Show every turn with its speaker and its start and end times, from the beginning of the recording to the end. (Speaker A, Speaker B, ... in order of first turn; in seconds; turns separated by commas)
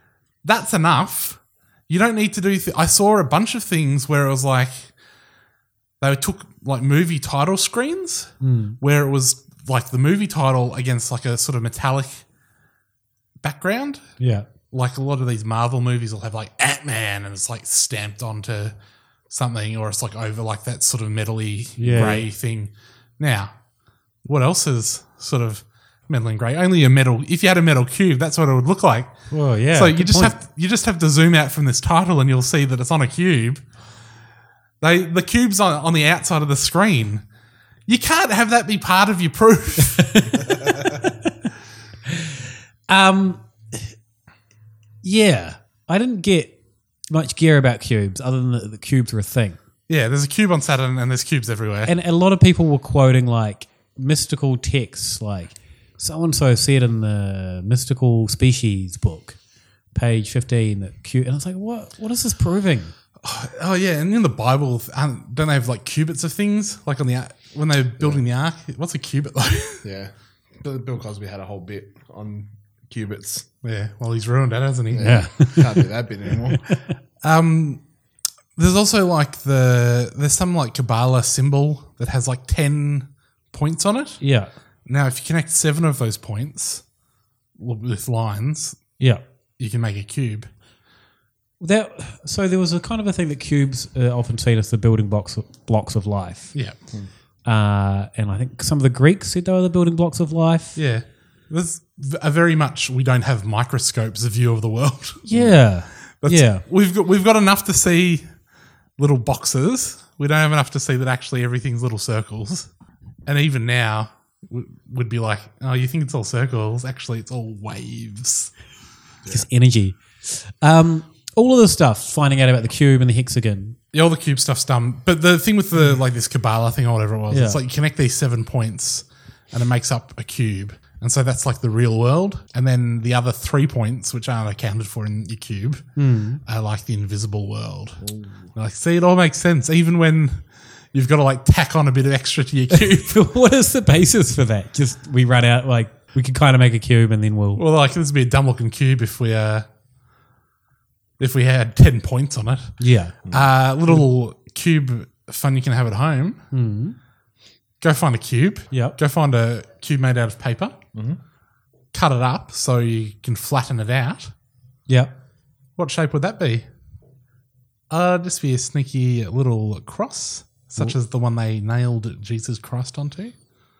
Speaker A: 0.4-4.9, Speaker A: 6.0-12.2, Speaker B: 8.4-8.8, Speaker A: 13.4-14.1, Speaker B: 14.2-14.5, Speaker A: 14.7-18.7, Speaker A: 19.3-23.5, Speaker B: 21.8-22.2, Speaker A: 24.2-33.6, Speaker B: 29.3-30.3, Speaker A: 34.8-37.2, Speaker A: 37.9-40.4, Speaker B: 40.0-40.6, Speaker B: 42.9-43.8, Speaker B: 45.0-46.5, Speaker B: 47.1-49.6, Speaker A: 49.9-51.9, Speaker B: 51.9-59.4, Speaker B: 59.9-62.9, Speaker A: 63.2-69.8, Speaker C: 69.8-73.5, Speaker A: 73.6-75.4, Speaker C: 74.9-76.6, Speaker B: 75.0-75.9, Speaker A: 77.2-77.8, Speaker A: 78.5-84.2, Speaker B: 84.2-84.5, Speaker A: 84.9-86.8, Speaker A: 87.6-88.9, Speaker A: 89.6-90.5, Speaker B: 91.6-96.5, Speaker B: 97.4-100.8, Speaker A: 100.8-105.2, Speaker B: 105.2-106.6, Speaker C: 105.3-105.5, Speaker A: 106.1-108.3, Speaker A: 109.0-112.7, Speaker A: 113.2-118.5, Speaker B: 119.3-123.8, Speaker A: 123.9-138.0, Speaker B: 127.3-127.6, Speaker B: 135.9-136.4, Speaker C: 138.0-138.4, Speaker A: 138.5-143.1, Speaker B: 142.7-147.6, Speaker A: 147.6-149.7, Speaker A: 151.2-156.4, Speaker B: 152.8-153.2, Speaker C: 153.2-153.5, Speaker B: 156.5-156.9, Speaker A: 157.8-160.7, Speaker B: 158.7-158.9, Speaker C: 160.9-161.2, Speaker A: 161.9-164.3, Speaker A: 165.8-166.7, Speaker A: 167.9-173.3